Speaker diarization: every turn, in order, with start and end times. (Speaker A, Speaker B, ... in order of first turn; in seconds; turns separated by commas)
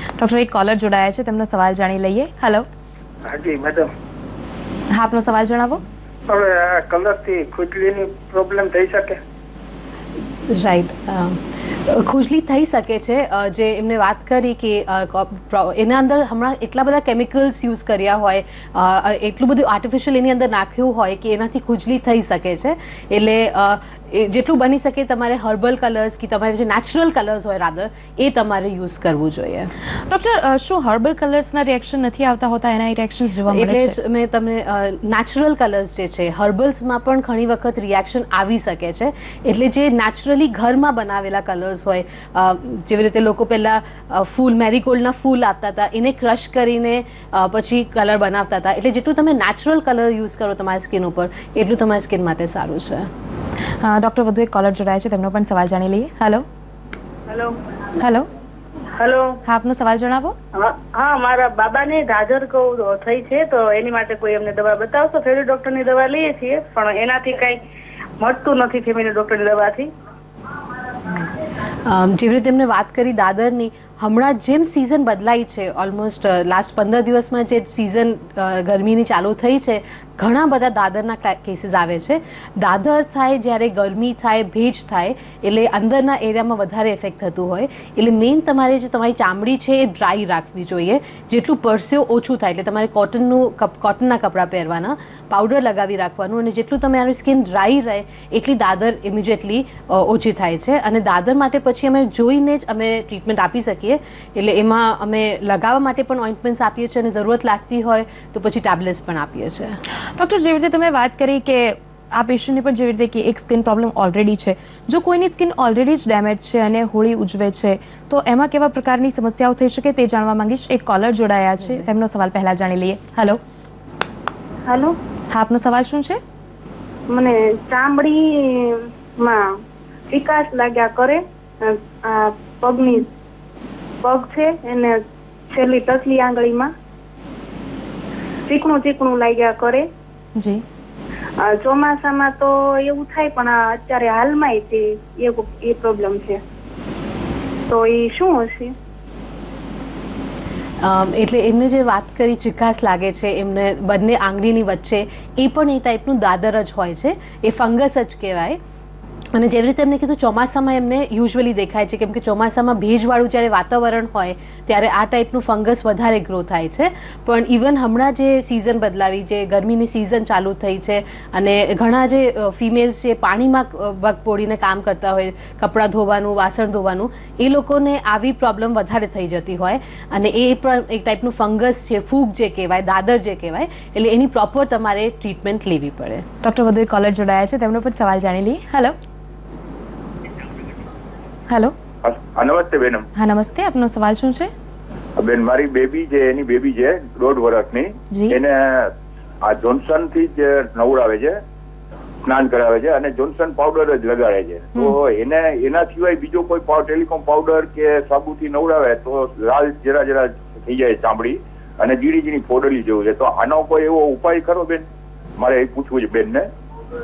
Speaker A: 0.2-2.6, Speaker B: 3.2-3.9, Speaker A: 4.9-5.8, Speaker B: 6.3-9.2, Speaker C: 10.5-29.7, Speaker A: 30.0-34.0, Speaker C: 33.5-53.1, Speaker A: 53.8-56.4, Speaker A: 58.0-58.3, Speaker D: 59.0-59.4, Speaker A: 59.4-60.4, Speaker D: 60.5-67.6, Speaker D: 68.2-69.9, Speaker C: 71.8-109.8, Speaker A: 110.1-123.4, Speaker C: 121.6-121.9, Speaker D: 124.7-125.0, Speaker A: 125.3-126.2, Speaker D: 127.1-129.6, Speaker D: 130.1-133.1, Speaker D: 134.0-135.0, Speaker D: 135.5-136.7, Speaker D: 138.5-139.9, Speaker A: 140.4-140.6, Speaker D: 141.4-146.4, Speaker D: 147.7-148.7, Speaker C: 150.8-158.6, Speaker C: 159.3-186.2, Speaker A: 186.4-188.9, Speaker A: 191.5-191.7, Speaker E: 192.0-193.1, Speaker A: 193.2-194.5, Speaker E: 195.2-198.9, Speaker A: 198.1-198.4, Speaker E: 199.4-201.4, Speaker E: 202.2-214.8, Speaker E: 215.4-216.5